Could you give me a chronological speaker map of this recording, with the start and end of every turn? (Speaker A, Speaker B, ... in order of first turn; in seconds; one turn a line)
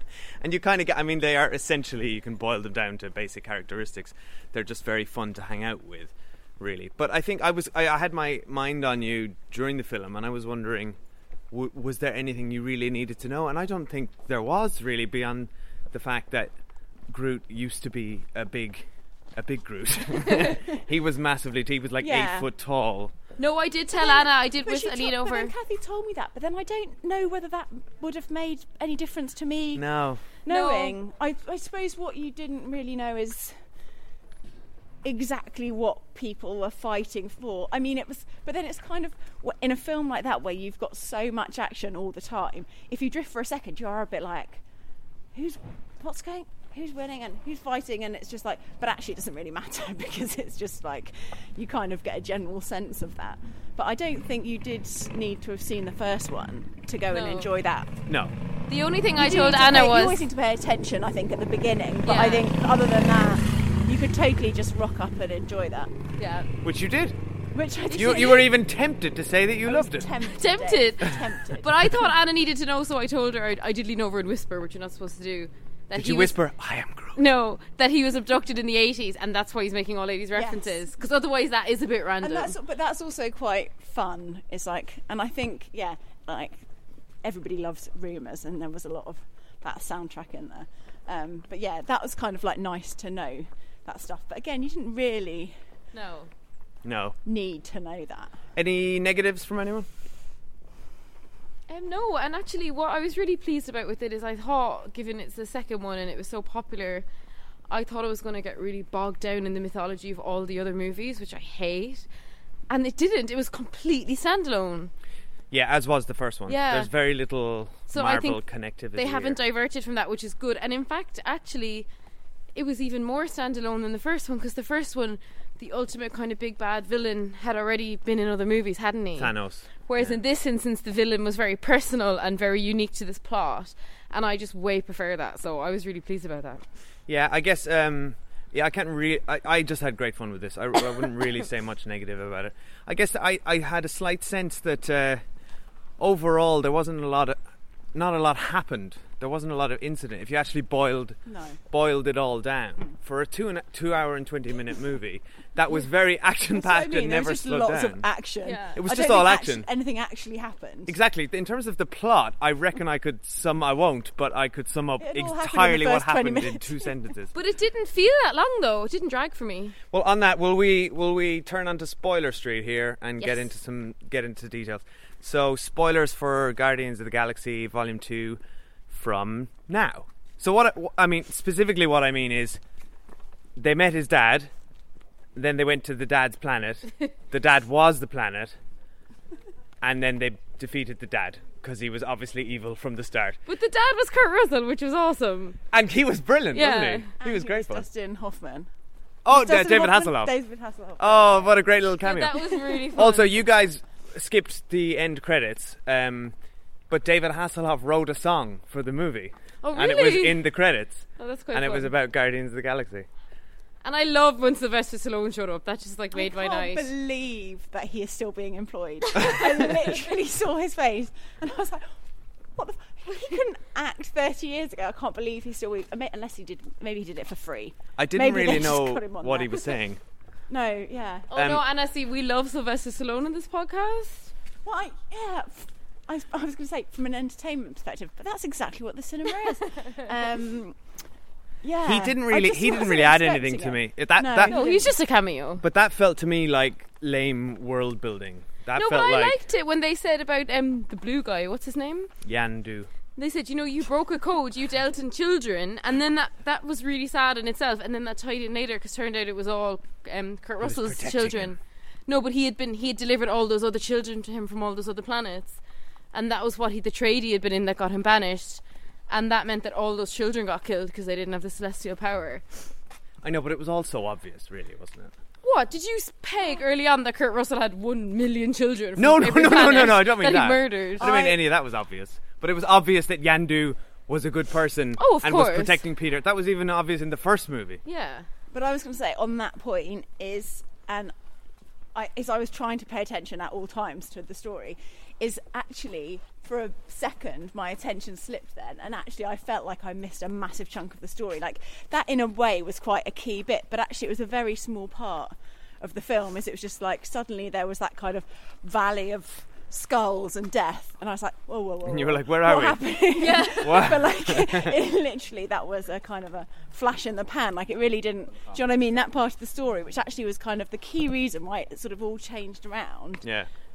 Speaker A: 0.4-11.0
Speaker A: 11.5-16.5
Speaker A: 17.1-23.1
Speaker B: 22.0-22.5
Speaker C: 23.4-25.5
Speaker B: 23.9-29.8
Speaker A: 29.7-30.2
Speaker B: 30.4-33.5
Speaker C: 30.4-31.0
Speaker B: 35.0-44.6
Speaker B: 45.3-57.9
Speaker C: 57.1-57.5
Speaker A: 58.1-58.3
Speaker C: 58.7-60.3
Speaker B: 59.1-65.9
Speaker C: 62.0-62.5
Speaker C: 66.2-66.5
Speaker A: 66.6-67.2
Speaker B: 67.5-68.5
Speaker C: 67.9-68.5
Speaker A: 67.9-70.1
Speaker B: 69.6-71.8
Speaker C: 70.3-76.4
Speaker A: 75.9-77.2
Speaker C: 77.1-82.5
Speaker B: 80.3-80.8
Speaker B: 82.2-86.6
Speaker B: 87.2-95.5
Speaker C: 95.9-96.3
Speaker A: 96.8-97.2
Speaker B: 97.2-98.4
Speaker A: 98.5-99.9
Speaker C: 101.7-107.0
Speaker C: 107.7-112.0
Speaker C: 112.7-114.9
Speaker A: 115.5-119.4
Speaker C: 116.5-116.9
Speaker C: 117.9-118.4
Speaker C: 118.9-121.9
Speaker C: 122.5-136.6
Speaker A: 129.2-130.2
Speaker A: 137.1-145.2
Speaker A: 146.0-147.4
Speaker A: 147.9-151.2
Speaker B: 151.2-151.6
Speaker A: 151.7-158.1
Speaker B: 156.5-160.9
Speaker C: 158.4-158.8
Speaker A: 158.8-159.7
Speaker A: 160.9-167.3
Speaker B: 165.0-166.9
Speaker C: 167.3-169.8
Speaker A: 169.9-182.6
Speaker C: 173.2-173.4
Speaker A: 183.6-184.5
Speaker A: 185.3-188.6
Speaker A: 189.8-193.4
Speaker C: 193.5-195.6
Speaker A: 195.7-197.8
Speaker C: 196.5-197.1
Speaker B: 197.2-198.7
Speaker A: 199.2-200.3
Speaker B: 199.3-201.6
Speaker A: 201.0-206.3
Speaker C: 202.0-203.3
Speaker A: 206.9-213.1
Speaker C: 209.6-210.5
Speaker C: 211.2-211.9
Speaker C: 213.8-216.9
Speaker B: 216.1-221.9
Speaker B: 222.5-229.7
Speaker A: 228.0-230.0
Speaker B: 230.5-231.3
Speaker C: 231.3-234.3
Speaker A: 231.3-231.6
Speaker B: 234.6-240.8
Speaker B: 241.6-244.9
Speaker A: 241.8-244.6
Speaker C: 244.4-245.6
Speaker A: 245.6-249.4
Speaker C: 248.7-252.1
Speaker A: 252.2-252.9
Speaker C: 253.2-265.6
Speaker A: 260.6-261.6
Speaker C: 266.1-272.7
Speaker A: 273.2-275.1
Speaker C: 275.4-281.1
Speaker A: 279.0-287.8
Speaker B: 281.0-281.4
Speaker C: 285.0-285.8
Speaker C: 287.9-288.3
Speaker B: 288.5-291.1
Speaker B: 291.9-323.2
Speaker A: 311.9-312.8
Speaker C: 313.2-313.9
Speaker A: 313.5-314.7
Speaker A: 323.2-323.5